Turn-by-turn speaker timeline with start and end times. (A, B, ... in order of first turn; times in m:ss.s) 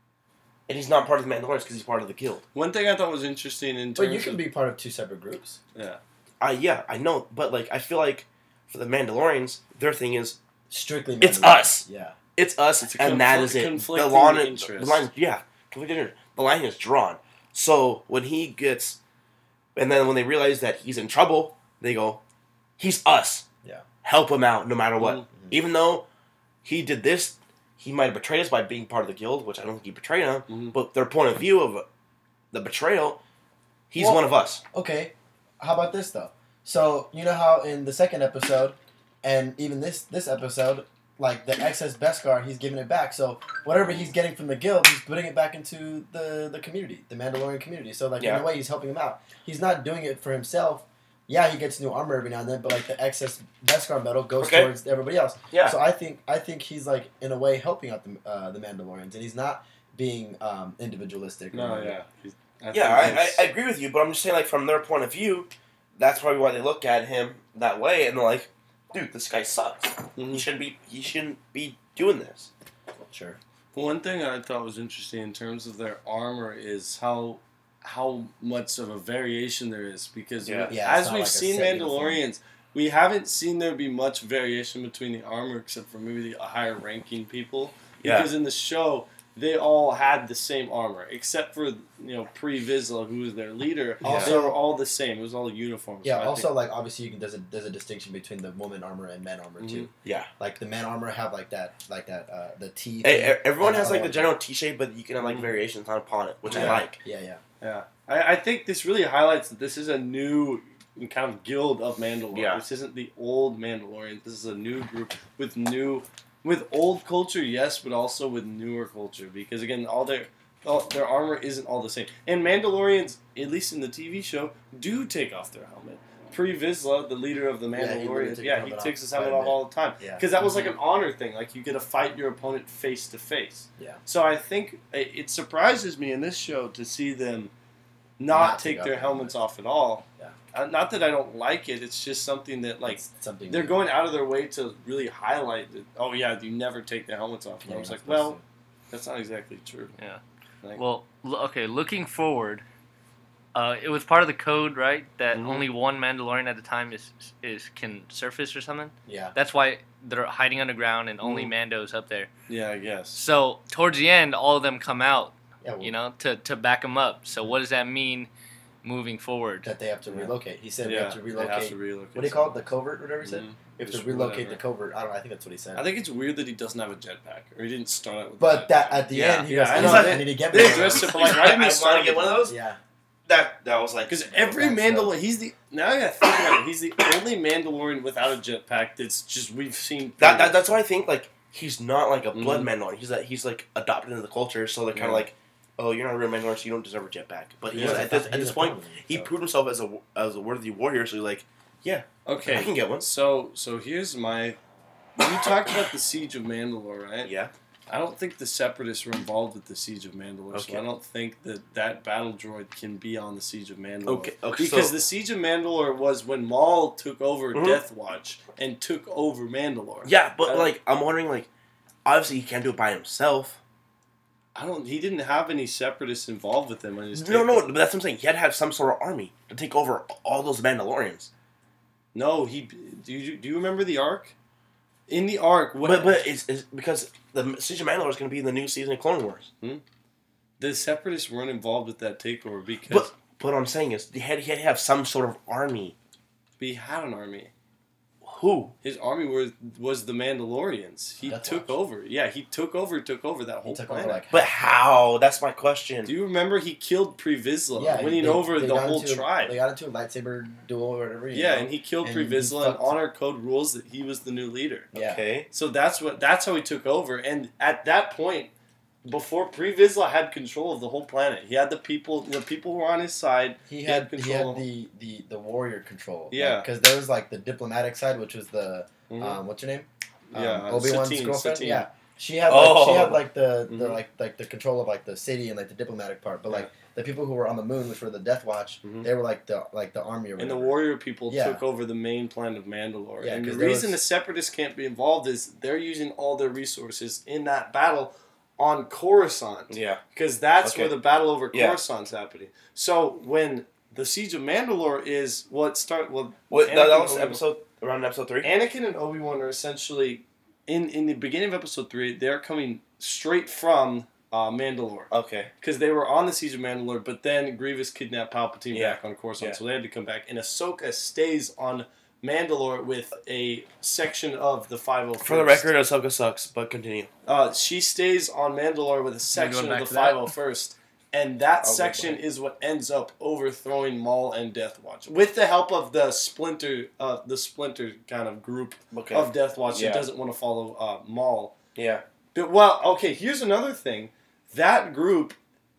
0:00.7-0:02.4 A
0:02.5-0:04.4 B
0:04.0-0:05.6 C
0:05.7-0:06.0 B
0:06.4-0:10.4 A
0:10.7-0:12.2 C
0:11.2-0:19.0 A
0:12.8-0:15.1 B
0:19.8-0:22.2 A
0:22.8-0:23.4 A
0:24.0-0:26.0 A
0:25.0-0:25.2 B
0:25.3-0:25.6 C
0:26.6-0:31.8 A
0:30.5-0:30.7 B
0:32.5-0:33.2 A
0:33.9-0:34.6 A
0:34.0-1:02.0 C
0:48.2-0:48.4 A
0:54.4-0:54.7 A
0:55.5-0:55.8 A
1:01.5-1:03.4 B
1:02.7-1:12.5 A
1:10.2-1:10.4 B
1:13.0-1:13.4 C
1:13.7-1:36.5 B
1:20.4-1:20.7 A
1:20.7-1:22.2 C
1:28.0-1:28.3 A
1:34.0-1:34.6 C
1:34.0-1:34.3 A
1:36.0-1:44.3 C
1:39.6-1:39.9 B
1:40.0-1:40.3 A
1:43.0-1:47.0 A
1:45.2-1:45.6 B
1:46.5-1:46.8 B
1:46.5-1:47.4 C
1:47.6-2:17.5 B
1:52.3-1:52.6 A
2:07.7-2:10.2 C
2:10.4-2:10.8 D
2:18.2-2:28.4 B
2:18.3-2:19.4 C
2:22.8-2:23.9 C
2:27.6-2:28.4 C
2:28.9-2:30.0 B
2:30.8-2:32.6 D
2:33.5-2:42.3 D
2:35.3-2:35.6 B
2:39.0-2:39.3 C
2:41.2-2:41.5 B
2:42.5-2:43.2 B
2:43.1-2:48.3 D
2:45.6-2:45.9 C
2:48.8-2:49.7 D
2:49.6-2:55.8 C
2:50.1-2:52.6 B
2:53.2-2:54.6 B
2:55.7-3:02.5 B
2:58.4-3:01.4 C
2:59.1-3:02.5 A
3:02.4-3:02.8 C
3:03.3-3:04.4 A
3:04.1-3:10.8 B
3:04.4-3:05.2 C
3:10.2-3:23.1 A
3:12.3-3:12.7 B
3:14.9-3:15.3 B
3:17.7-3:19.3 C
3:17.7-3:18.1 B
3:22.2-3:24.6 B
3:25.2-3:27.3 B
3:27.2-3:27.5 A
3:27.9-3:40.7 B
3:30.5-3:30.8 A
3:34.0-3:35.0 A
3:37.5-3:37.8 A
3:40.0-3:41.5 A
3:42.0-3:43.6 A
3:44.5-3:47.7 B
3:47.1-3:51.3 A
3:52.1-3:54.3 B
3:55.1-3:56.2 B
3:55.8-3:59.5 A
4:00.6-4:03.1 B
4:02.9-4:05.9 A
4:06.6-4:07.5 B
4:08.2-4:08.7 A
4:08.8-4:14.2 B
4:11.2-4:11.8 C
4:13.6-4:14.5 C
4:14.3-4:16.1 A
4:16.0-4:19.5 B
4:17.7-4:23.0 C
4:21.3-4:24.9 B
4:24.9-4:25.2 C
4:24.9-4:25.5 A
4:25.5-4:28.5 B
4:29.0-4:34.6 B
4:33.7-4:51.6 C
4:36.3-4:36.7 B
4:39.1-4:39.4 B
4:40.3-4:41.8 B
4:42.5-4:43.2 A
4:43.7-4:44.0 B
4:48.8-4:49.1 B
4:50.4-5:07.4 B
4:53.2-4:54.0 C
4:59.7-5:00.0 A
5:00.6-5:01.8 A
5:06.5-5:08.5 A
5:08.4-5:25.7 B
5:15.1-5:15.5 A
5:18.7-5:19.6 A
5:25.2-5:27.1 A
5:27.2-5:41.5 B
5:29.3-5:30.0 A
5:29.9-5:30.2 D
5:31.6-5:32.2 A
5:38.9-5:40.0 A
5:41.7-5:42.0 A
5:42.3-5:45.4 B